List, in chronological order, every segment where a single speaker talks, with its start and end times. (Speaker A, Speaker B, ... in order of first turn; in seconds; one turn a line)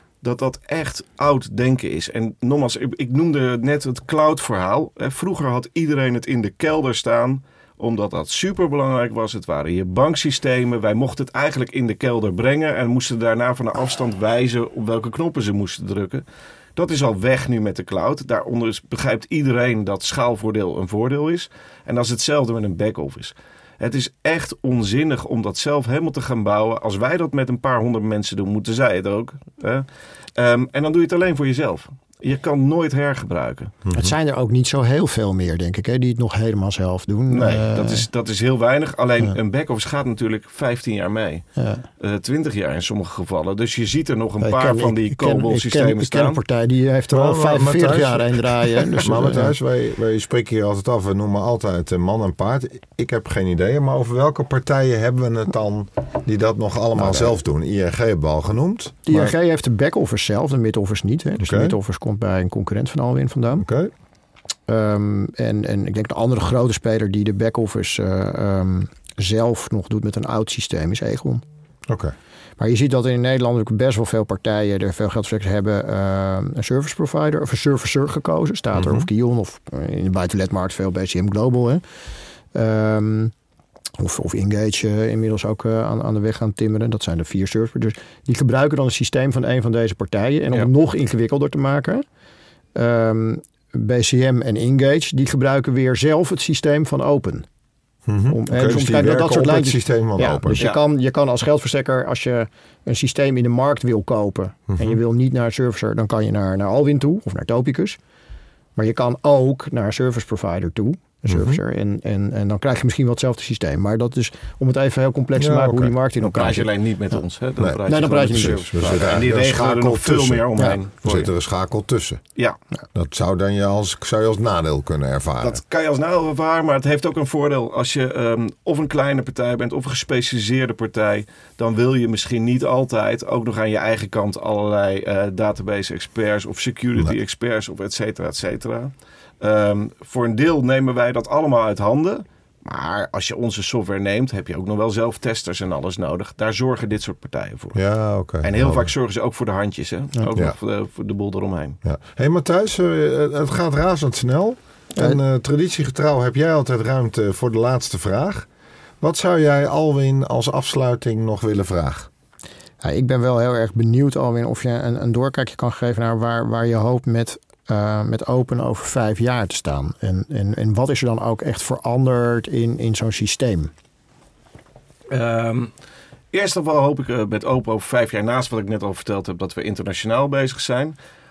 Speaker A: 0.2-16.2
Speaker A: 16.8-33.7
Speaker B: 33.9-34.1
Speaker C: 33.9-38.1
Speaker A: 37.3-41.5
Speaker C: 41.6-41.9
Speaker A: 42.0-46.4
Speaker C: 44.4-49.5
Speaker B: 47.1-59.3
Speaker C: 57.0-57.3
Speaker C: 59.1-63.6
Speaker B: 61.4-61.8
Speaker B: 63.6-63.9
Speaker C: 64.7-71.4
Speaker B: 71.9-72.1
Speaker C: 72.6-81.8
Speaker B: 78.7-79.1
Speaker C: 82.5-83.3
Speaker C: 84.0-92.0
Speaker C: 92.8-97.5
Speaker B: 98.1-100.6
Speaker C: 98.3-108.0
Speaker A: 100.6-100.8
Speaker B: 104.7-105.0
Speaker C: 108.8-116.7
Speaker B: 111.3-111.6
Speaker B: 115.4-115.9
Speaker A: 116.2-121.3
Speaker C: 117.8-118.6
Speaker B: 118.3-122.2
Speaker B: 122.9-125.6
Speaker A: 125.4-147.8
Speaker B: 147.7-148.9
Speaker A: 148.4-151.8
Speaker B: 151.8-158.5
Speaker B: 159.0-162.1
Speaker C: 162.8-173.7
Speaker A: 175.1-175.7
Speaker A: 176.3-180.9